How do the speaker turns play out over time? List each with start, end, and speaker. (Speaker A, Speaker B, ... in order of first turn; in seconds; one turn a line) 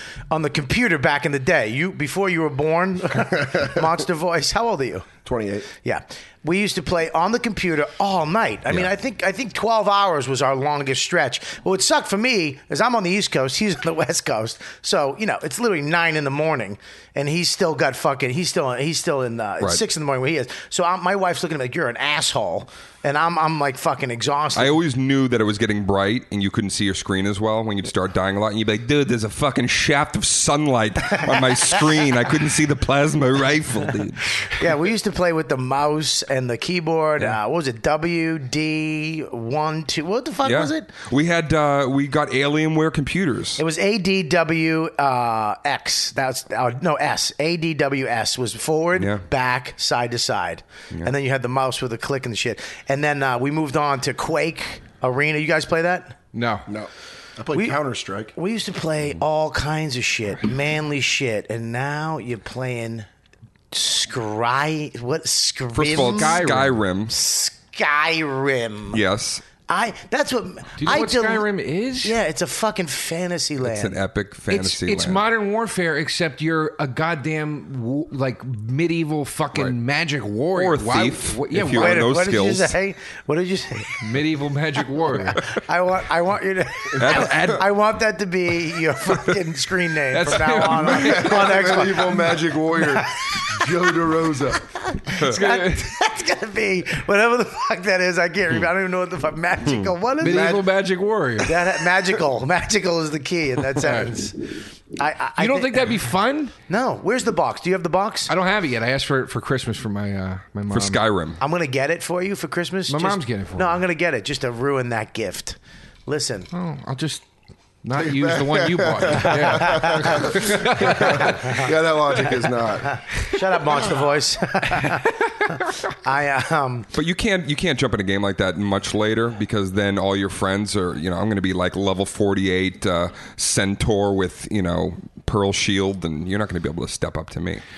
Speaker A: 0.3-5.1
Speaker B: 3.2-3.9
Speaker B: 5.2-5.7
Speaker A: 5.8-24.8
Speaker C: 24.6-34.6
Speaker A: 31.2-31.5
Speaker A: 34.5-40.9
Speaker C: 40.4-43.6
Speaker A: 43.6-56.2
Speaker C: 49.0-49.2
Speaker D: 56.3-56.7
Speaker B: 56.7-58.3
Speaker A: 58.4-63.1
Speaker A: 63.7-66.5
Speaker C: 65.7-67.1
Speaker D: 66.1-66.8
Speaker A: 67.1-69.0
Speaker C: 68.9-69.4
Speaker A: 69.7-71.5
Speaker D: 70.8-72.2
Speaker A: 72.0-74.0
Speaker C: 73.6-75.2
Speaker D: 74.5-82.0
Speaker C: 80.5-82.7
Speaker A: 81.7-84.0
Speaker D: 84.0-85.4
Speaker A: 85.4-93.8
Speaker C: 86.9-87.7
Speaker D: 90.1-91.6
Speaker B: 90.7-94.6
Speaker A: 94.9-100.6
Speaker D: 95.2-95.9
Speaker D: 100.2-101.6
Speaker B: 100.2-100.7
Speaker A: 101.4-106.0
Speaker D: 103.8-104.1
Speaker D: 105.4-106.5
Speaker A: 106.7-108.3
Speaker D: 108.3-111.0
Speaker C: 110.7-111.4
Speaker A: 111.4-116.5
Speaker D: 112.9-113.8
Speaker D: 116.5-117.2
Speaker D: 117.8-121.6
Speaker B: 118.0-123.0
Speaker A: 119.3-121.7
Speaker A: 123.2-126.9
Speaker D: 124.8-125.7
Speaker C: 126.9-137.6